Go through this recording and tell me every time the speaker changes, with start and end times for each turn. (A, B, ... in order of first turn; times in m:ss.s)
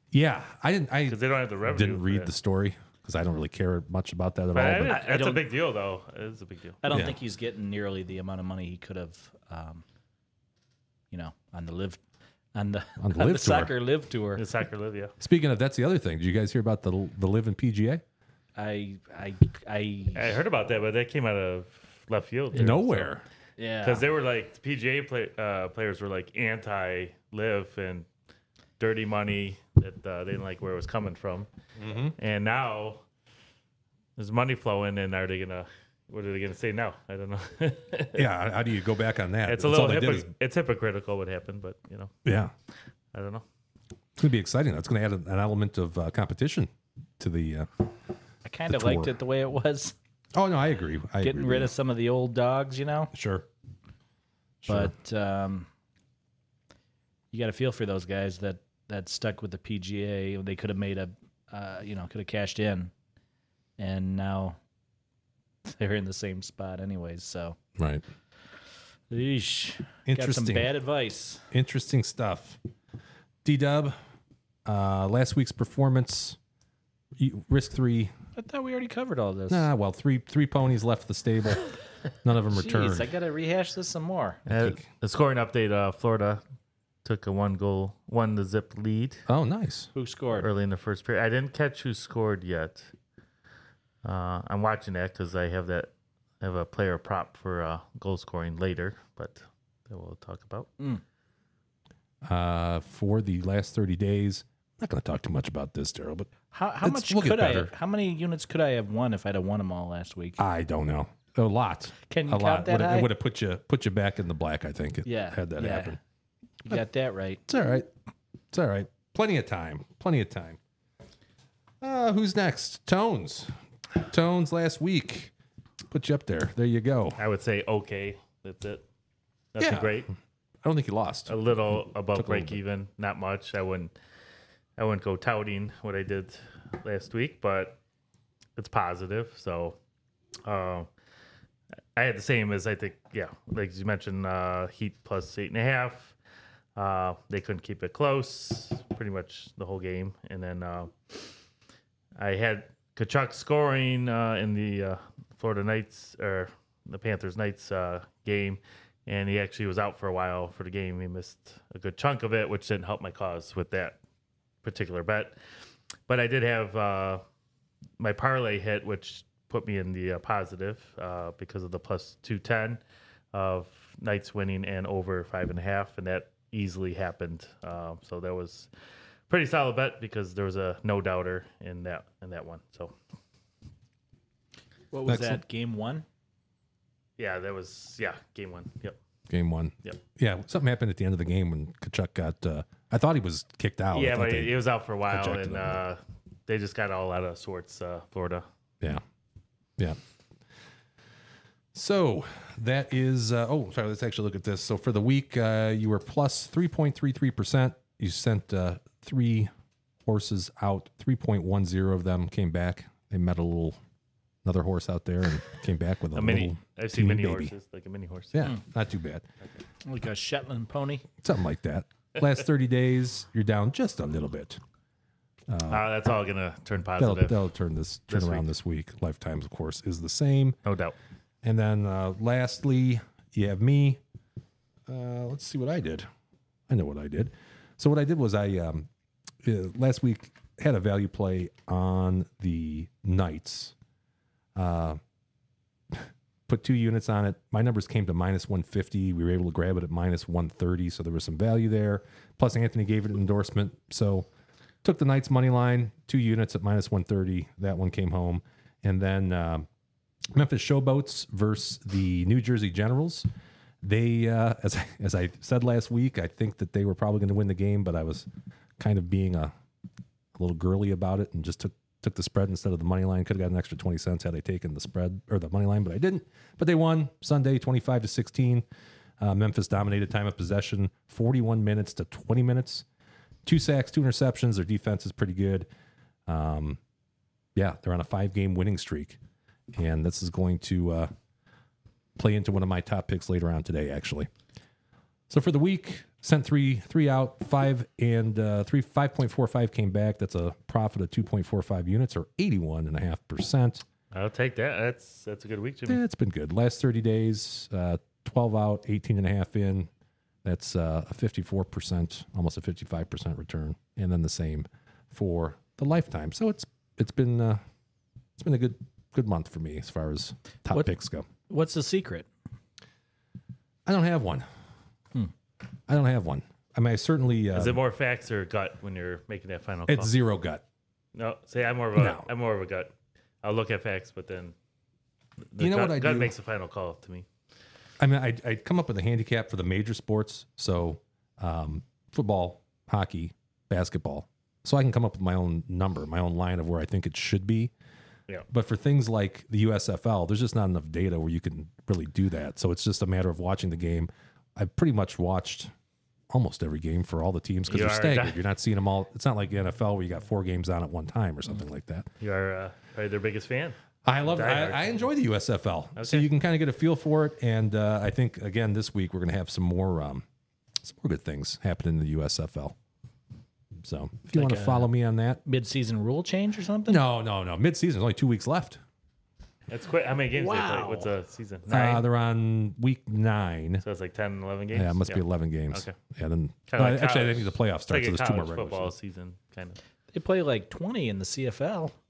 0:00.1-0:05.0 A
0:01.1-0:02.3 B
0:04.5-0:06.8 B
0:04.9-0:05.4 C
0:06.8-0:09.8 C
0:06.9-0:07.2 A
0:11.1-0:12.0 C
0:12.6-0:14.4 C
0:13.0-0:13.8 A
0:14.4-0:15.1 B
0:15.2-0:18.0 A
0:18.6-0:20.4 C
0:20.2-0:23.1 B
0:22.5-0:23.2 A
0:23.6-0:24.0 C
0:23.8-0:28.1 B
0:28.8-0:31.5 B
0:31.8-0:32.2 A
0:32.2-0:33.0 B
0:34.2-0:38.2 B
0:38.1-0:40.3 A
0:39.5-0:42.1 B
0:42.2-0:42.5 A
0:43.1-0:43.4 B
0:44.2-0:47.7 A
0:48.4-0:50.0 C
0:48.7-0:49.2 A
0:50.3-0:51.7 A
0:51.2-0:53.1 C
0:53.1-0:53.5 A
0:54.6-0:54.9 A
0:54.7-0:55.7 C
0:57.3-1:02.9 C
1:03.8-1:04.6 C
1:05.6-1:07.6 C
1:07.8-1:08.0 A
1:09.1-1:11.5 C
1:10.1-1:10.8 A
1:11.5-1:12.6 A
1:13.4-1:14.0 A
1:14.7-1:16.4 A
1:17.2-1:18.1 A
1:18.4-1:19.7 C
1:19.5-1:21.7 A
1:22.2-1:23.1 A
1:22.5-1:24.4 C
1:24.5-1:26.4 B
1:24.5-1:24.8 A
1:27.0-1:29.2 B
1:29.3-1:29.9 A
1:30.0-1:30.5 C
1:30.4-1:32.9 B
1:34.0-1:40.7 B
1:42.2-1:46.3 A
1:46.5-1:50.4 C
1:46.8-1:47.7 A
1:50.4-1:56.0 A
1:52.1-1:53.1 C
1:55.0-1:56.0 C
1:56.6-1:57.4 C
1:57.5-1:57.9 A
1:58.5-2:00.6 A
2:01.8-2:05.3 A
2:05.9-2:07.2 A
2:07.2-2:08.8 B
2:09.6-2:10.1 B
2:09.6-2:10.1 A
2:10.6-2:11.4 A
2:11.3-2:13.9 B
2:12.1-2:12.6 A
2:14.8-2:17.8 B
2:18.6-2:19.8 B
2:20.4-2:20.9 B
2:22.0-2:26.1 B
2:26.8-2:30.9 B
2:32.2-2:44.0 B
2:44.6-2:45.4 B
2:46.1-2:47.2 B
2:48.0-2:52.8 B
2:53.3-2:58.7 B
2:59.3-3:02.9 B
3:04.9-3:06.0 C
3:05.1-3:05.4 A
3:07.2-3:09.0 B
3:09.3-3:14.6 A
3:13.9-3:18.4 B
3:15.1-3:15.8 A
3:21.7-3:29.5 A
3:30.1-3:33.8 A
3:34.4-3:37.5 A
3:36.1-3:38.5 B
3:38.3-3:39.2 A
3:39.8-3:41.1 C
3:41.2-3:44.6 A
3:45.5-3:45.9 A
3:45.7-3:47.4 B
3:47.0-3:50.6 A
3:48.1-3:48.5 B
3:50.6-3:51.0 B
3:51.4-3:54.0 A
3:54.9-3:56.1 A
3:56.7-3:58.9 A
3:59.4-4:03.7 A
4:04.6-4:05.0 A
4:05.9-4:14.3 A
4:14.8-4:19.7 A
4:20.3-4:23.3 A
4:23.8-4:29.5 A
4:30.4-4:38.6 A
4:39.2-4:42.8 A
4:43.4-4:45.7 A
4:46.3-4:46.8 A
4:47.6-4:49.2 A
4:49.7-4:51.1 A
4:52.2-4:54.3 A
4:55.3-5:03.8 A
5:04.1-5:06.0 B
5:05.9-5:09.9 A
5:10.4-5:17.6 A
5:18.4-5:21.3 A
5:21.5-5:22.3 C
5:23.9-5:24.5 A
5:25.9-5:27.8 A
5:27.5-5:30.1 B
5:29.9-5:30.6 A
5:31.2-5:32.9 B
5:32.0-5:32.3 A
5:33.4-5:34.6 B
5:35.5-5:37.3 B
5:35.6-5:36.3 A
5:38.0-5:47.7 A
5:48.5-5:55.7 A
5:56.3-6:02.1 A
5:57.7-5:58.4 B
6:02.2-6:03.8 B
6:04.0-6:10.2 A
6:04.3-6:05.0 B
6:06.0-6:06.3 B
6:10.8-6:12.8 A
6:13.8-6:15.4 A
6:14.3-6:14.9 C
6:15.4-6:17.0 C
6:16.9-6:18.8 A
6:19.7-6:22.0 B
6:20.3-6:21.1 C
6:21.7-6:23.8 A
6:23.8-6:26.0 B
6:24.7-6:28.9 A
6:26.7-6:29.8 B
6:30.1-6:31.9 C